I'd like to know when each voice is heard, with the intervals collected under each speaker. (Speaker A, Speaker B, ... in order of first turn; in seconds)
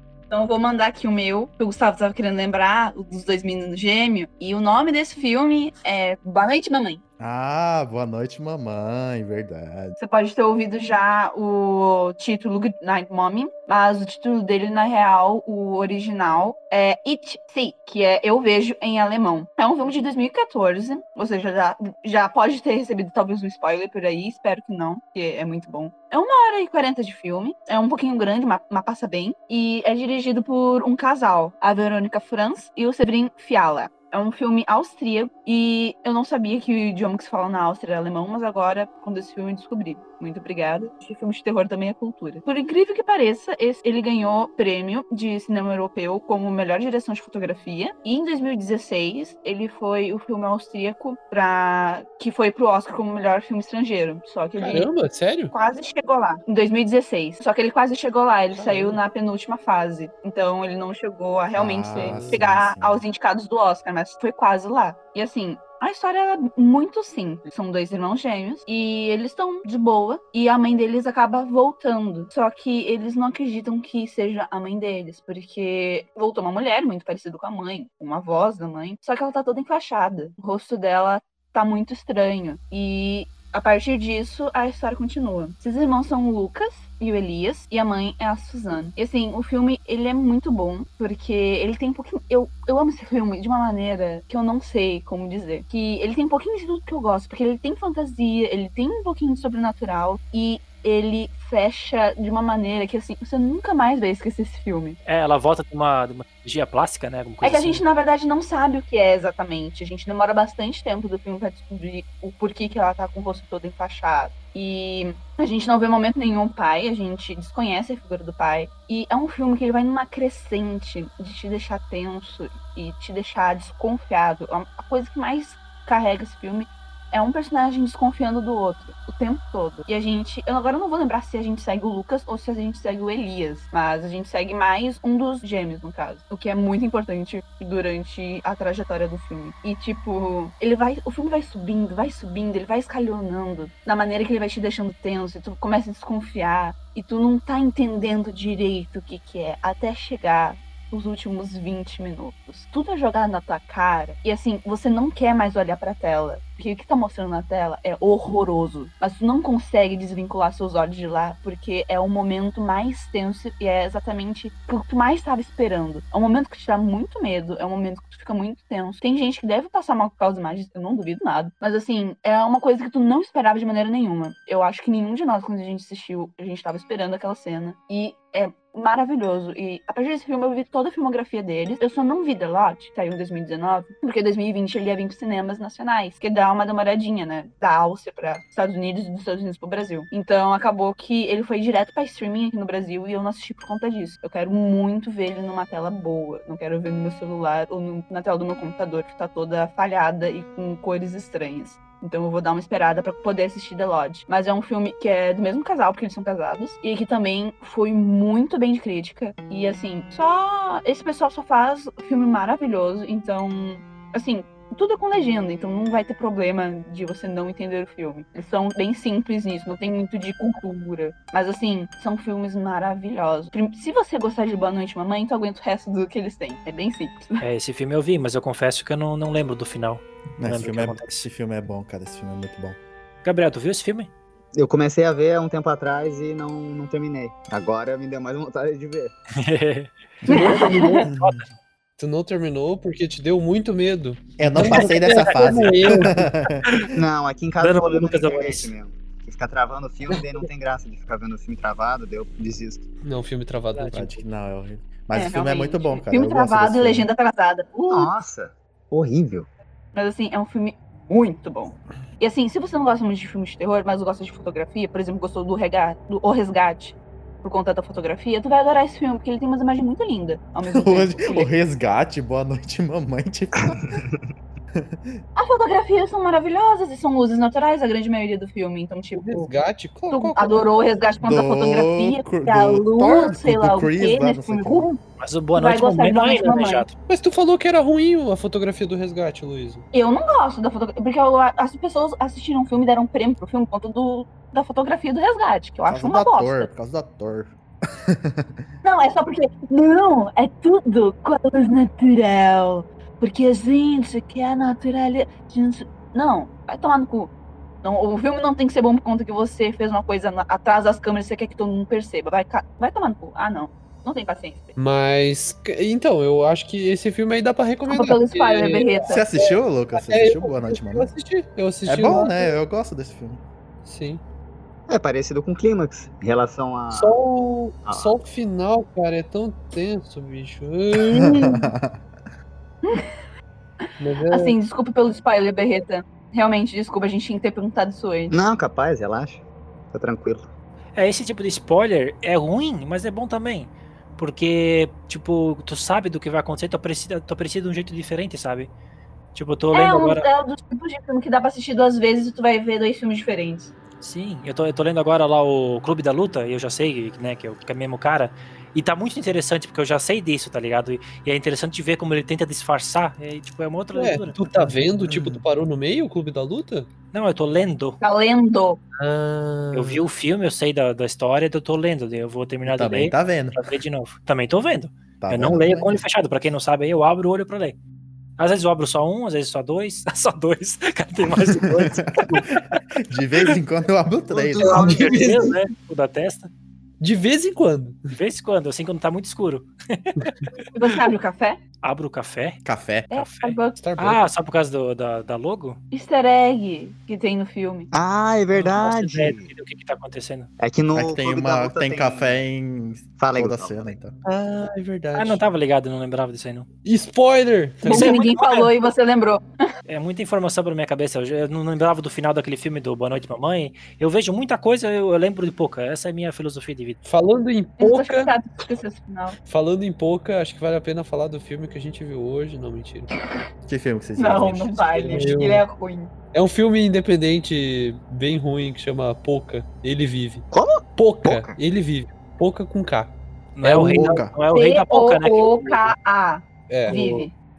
Speaker A: 0.3-7.0, 10.0-54.9, 55.5-105.0, 107.4-227.4, 240.3-241.1, 255.1-258.1, 259.9-271.5, 275.4-279.6, 280.1-285.0, 285.6-286.9, 289.9-296.7, 298.8-307.3, 307.8-314.8, 317.9-319.3, 331.2-331.6, 332.9-333.1, 334.3-338.4, 349.7-353.7, 368.0-368.8, 390.7-391.6, 393.1-393.8, 395.9-397.9, 407.8-409.4, 417.8-419.4, 424.2-426.1, 434.5-437.3
Speaker B: 7.2-10.0, 61.5-63.0, 230.4-232.8, 241.1-241.4, 244.4-246.9, 253.9-257.1, 270.7-274.0, 274.8-275.2, 281.2-284.9, 295.9-298.7, 319.1-321.1, 321.9-323.4, 331.1-332.0, 365.0-365.4, 372.7-373.6, 375.2-376.0, 381.4-384.9, 392.6-393.1, 400.9-405.4, 423.7-425.2, 433.9-434.3
Speaker C: 54.6-55.5, 58.5-59.0, 240.3-241.1, 242.0-246.3, 253.0-254.1, 279.1-280.6, 287.1-289.9, 314.8-322.5, 323.8-324.2, 326.9-331.4, 334.0-334.6, 363.9-366.9, 369.0-370.0, 384.6-385.6, 387.0-388.1, 393.8-394.2, 406.9-408.1, 417.0-418.4, 419.5-423.1, 425.1-425.7, 426.3-434.2, 436.7-437.3
Speaker D: 105.0-107.8, 227.4-231.3, 233.2-234.1, 239.4-239.9, 241.2-241.5, 244.6-246.1, 247.6-248.7, 285.2-286.9, 340.9-348.7, 349.3-350.3, 354.0-364.5, 367.1-368.0, 369.7-377.8, 378.4-382.8, 384.6-386.5, 388.1-390.5, 391.8-395.8, 398.5-400.5, 405.1-406.7, 407.9-408.7, 409.9-417.0, 433.6-435.9
Speaker E: 234.6-239.1, 246.9-252.9, 257.9-259.5, 273.6-274.2, 324.9-327.2, 327.9-328.2, 338.3-340.5, 384.3-385.5, 397.9-399.5, 400.6-402.4, 403.2-404.0, 430.5-431.6